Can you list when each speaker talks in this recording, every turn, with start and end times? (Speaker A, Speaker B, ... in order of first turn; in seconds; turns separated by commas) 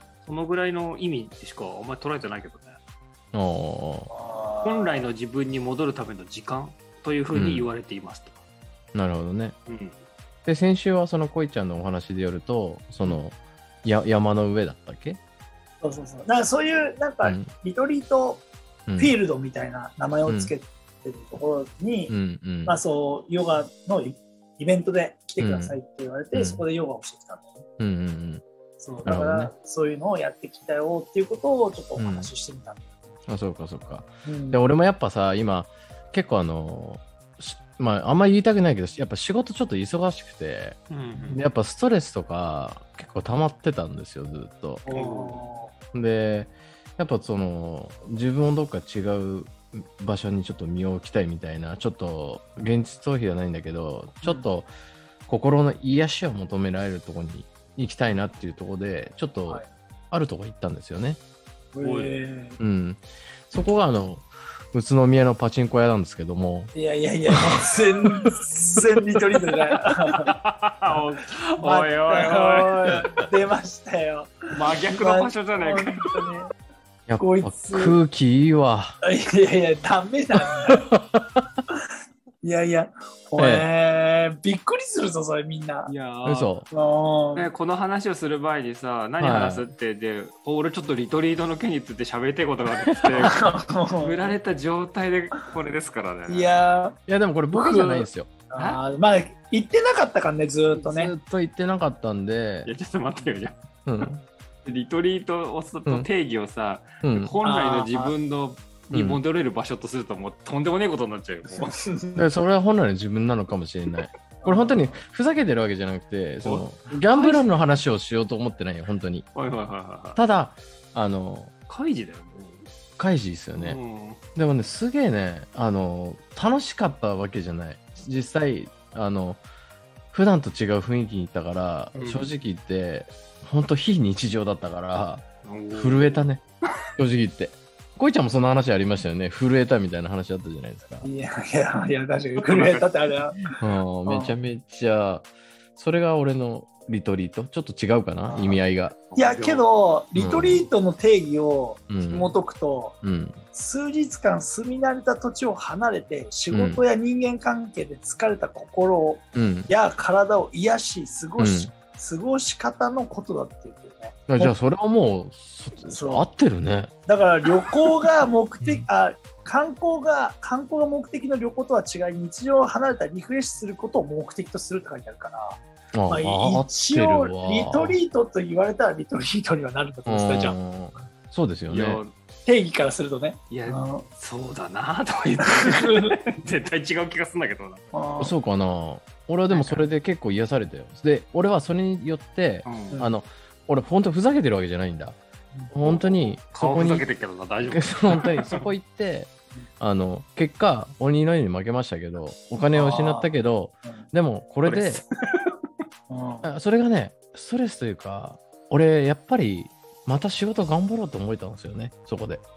Speaker A: 0.2-2.8, Speaker B: 3.3-4.1, Speaker C: 4.1-5.1, Speaker A: 4.6-8.4, Speaker B: 7.3-7.7, Speaker B: 8.9-9.6, Speaker A: 9.7-10.0, Speaker B: 10.5-15.2, Speaker C: 15.8-18.4, Speaker B: 17.2-17.5, Speaker B: 18.9-19.1, Speaker C: 19.0-27.6, Speaker B: 20.3-20.5, Speaker B: 22.1-22.8, Speaker B: 25.4-25.8, Speaker B: 26.3-26.6, Speaker B: 27.8-28.4, Speaker C: 28.8-32.9, Speaker B: 29.0-29.5, Speaker B: 32.0-32.3, Speaker B: 33.3-40.8, Speaker C: 34.2-34.6, Speaker A: 40.9-41.4, Speaker C: 41.1-41.4, Speaker B: 41.3-44.9, Speaker C: 44.9-45.7, Speaker A: 44.9-45.4, Speaker B: 45.9-54.7, Speaker C: 54.2-54.5, Speaker B: 55.3-61.2, Speaker C: 61.7-62.6, Speaker A: 61.8-62.1, Speaker B: 62.6-66.7, Speaker C: 66.7-70.3, Speaker A: 70.3-73.2, Speaker C: 71.6-76.5, Speaker A: 74.5-76.2, Speaker B: 77.1-79.0, Speaker C: 77.2-78.0, Speaker C: 79.0-80.9, Speaker B: 80.7-81.4, Speaker C: 82.4-85.9, Speaker B: 83.4-83.7, Speaker A: 85.9-86.5, Speaker B: 86.2-86.7, Speaker C: 86.7-87.5, Speaker A: 87.3-93.4, Speaker B: 89.2-89.7, Speaker C: 93.2-94.4, Speaker A: 94.0-96.6, Speaker C: 96.3-97.0, Speaker B: 97.1-98.3, Speaker C: 97.5-101.1, Speaker B: 100.7-102.7, Speaker A: 102.7-103.6, Speaker B: 103.9-104.2, Speaker A: 104.7-111.8, Speaker B: 107.0-107.3, Speaker C: 107.4-108.2, Speaker B: 108.9-109.2, Speaker C: 111.5-112.3, Speaker B: 112.2-119.3, Speaker C: 114.4-115.0, Speaker A: 116.4-117.5, Speaker A: 119.3-120.2, Speaker B: 120.2-121.5, Speaker A: 121.7-122.7, Speaker B: 123.0-123.8, Speaker A: 123.5-124.2, Speaker B: 124.4-129.4, Speaker B: 130.1-136.4, Speaker A: 131.9-132.3, Speaker A: 135.4-136.2, Speaker B: 137.0-141.1, Speaker C: 141.0-143.5, Speaker A: 142.4-142.9, Speaker B: 143.6-149.0, Speaker C: 144.1-144.3, Speaker C: 148.3-148.6, Speaker A: 149.1-149.7, Speaker C: 149.2-153.0, Speaker B: 150.2-150.6, Speaker B: 151.9-152.4, Speaker B: 153.0-153.4, Speaker C: 153.5-164.6, Speaker B: 156.5-156.8, Speaker B: 159.3-159.7, Speaker B: 161.4-161.7, Speaker B: 164.3-166.9, Speaker C: 165.9-166.3, Speaker C: 167.1-180.6, Speaker B: 175.9-178.0, Speaker B: 180.1-182.0, Speaker A: 181.7-182.1, Speaker C: 182.5-184.1, Speaker A: 183.5-187.9, Speaker C: 185.4-186.2, Speaker C: 187.9-188.3, Speaker B: 188.2-195.2, Speaker A: 189.5-189.8, Speaker A: 192.7-193.0, Speaker B: 195.7-197.1, Speaker A: 195.8-198.6, Speaker B: 197.7-205.0, Speaker C: 202.7-204.1, Speaker A: 204.6-205.5, Speaker C: 206.1-206.5, Speaker B: 206.4-212.4